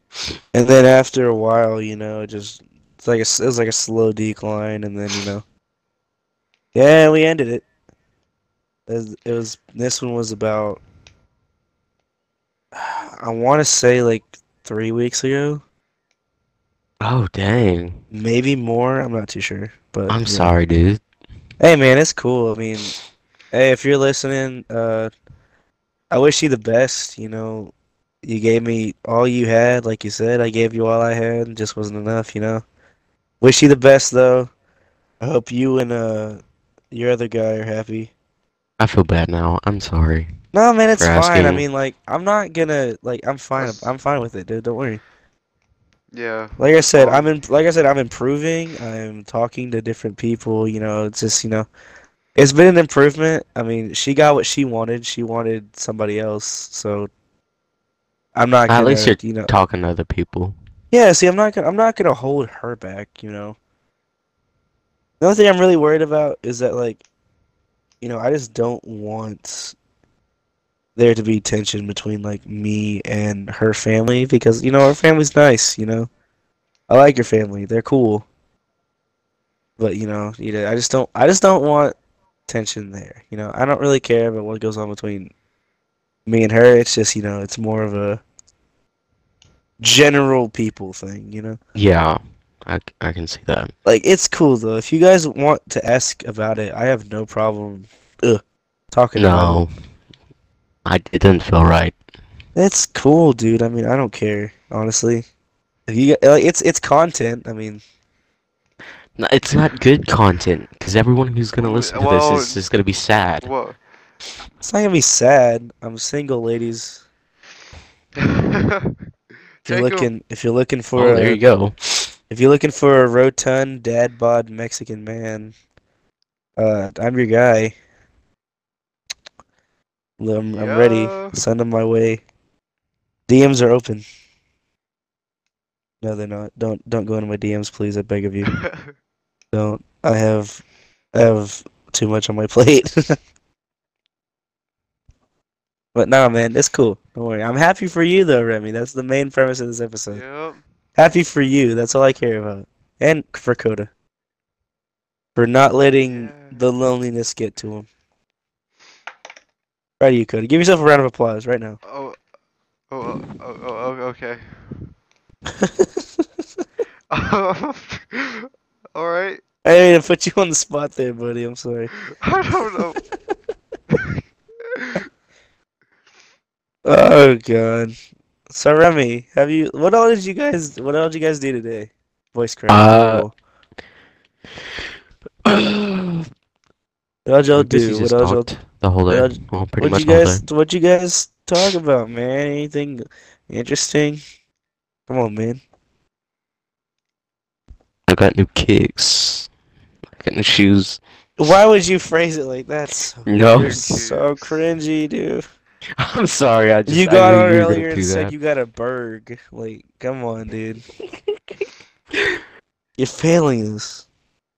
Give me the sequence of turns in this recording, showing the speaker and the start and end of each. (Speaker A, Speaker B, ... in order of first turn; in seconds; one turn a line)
Speaker A: 0.5-5.4
Speaker A: 6.7-7.7
Speaker A: 8.9-10.8
Speaker A: 12.8-15.6
Speaker B: 17.0-18.0
Speaker A: 18.1-20.5
Speaker B: 20.1-21.0
Speaker A: 21.6-22.9
Speaker A: 23.5-25.1
Speaker A: 26.1-32.6
Speaker A: 33.4-34.5
Speaker A: 35.2-38.1
Speaker B: 38.8-40.3
Speaker A: 40.5-45.0
Speaker B: 41.0-41.6
Speaker C: 43.6-43.9
Speaker C: 46.1-47.3
Speaker A: 46.6-51.7
Speaker A: 52.4-57.1
Speaker A: 58.4-59.5
Speaker B: 58.7-60.6
Speaker A: 60.9-63.6
Speaker A: 65.2-67.0
Speaker A: 68.0-69.8
Speaker A: 71.0-76.1
Speaker A: 76.9-78.3
Speaker A: 79.8-82.0
Speaker A: 82.5-85.3
Speaker A: 86.3-88.2
Speaker A: 89.8-91.6
Speaker B: 91.8-93.7
Speaker A: 93.8-99.7
Speaker B: 99.2-99.7
Speaker B: 100.8-102.0
Speaker A: 102.5-105.3
Speaker A: 105.9-107.8
Speaker B: 109.2-113.5
Speaker C: 111.6-112.6
Speaker C: 113.4-113.8
Speaker A: 114.6-117.0
Speaker C: 118.2-119.0
Speaker C: 119.6-120.1
Speaker A: 119.7-121.4
Speaker B: 121.0-122.1
Speaker A: 122.3-125.5
Speaker A: 126.6-127.8
Speaker A: 130.2-132.2
Speaker C: 130.5-131.4
Speaker A: 133.3-134.1
Speaker A: 136.0-138.5
Speaker C: 138.5-138.9
Speaker A: 139.5-140.6
Speaker A: 141.1-143.2
Speaker A: 145.9-150.2
Speaker C: 150.1-150.6
Speaker A: 151.0-153.9
Speaker A: 155.4-157.9
Speaker C: 156.0-156.6
Speaker A: 160.0-161.8
Speaker C: 161.8-162.2
Speaker C: 162.9-164.9
Speaker A: 165.6-166.1
Speaker C: 167.1-169.4
Speaker A: 169.6-171.9
Speaker C: 172.1-173.0
Speaker C: 173.9-175.0
Speaker A: 176.8-177.9
Speaker A: 178.5-183.3
Speaker B: 182.7-183.3
Speaker B: 185.4-186.3
Speaker A: 187.3-188.5
Speaker B: 187.6-190.4
Speaker A: 189.1-194.2
Speaker A: 195.1-195.6
Speaker B: 198.1-199.5
Speaker B: 200.1-201.0
Speaker A: 201.4-205.4
Speaker B: 203.3-203.8
Speaker C: 203.6-204.7
Speaker B: 206.0-208.3
Speaker A: 206.9-210.8
Speaker B: 212.1-212.4
Speaker A: 213.0-214.1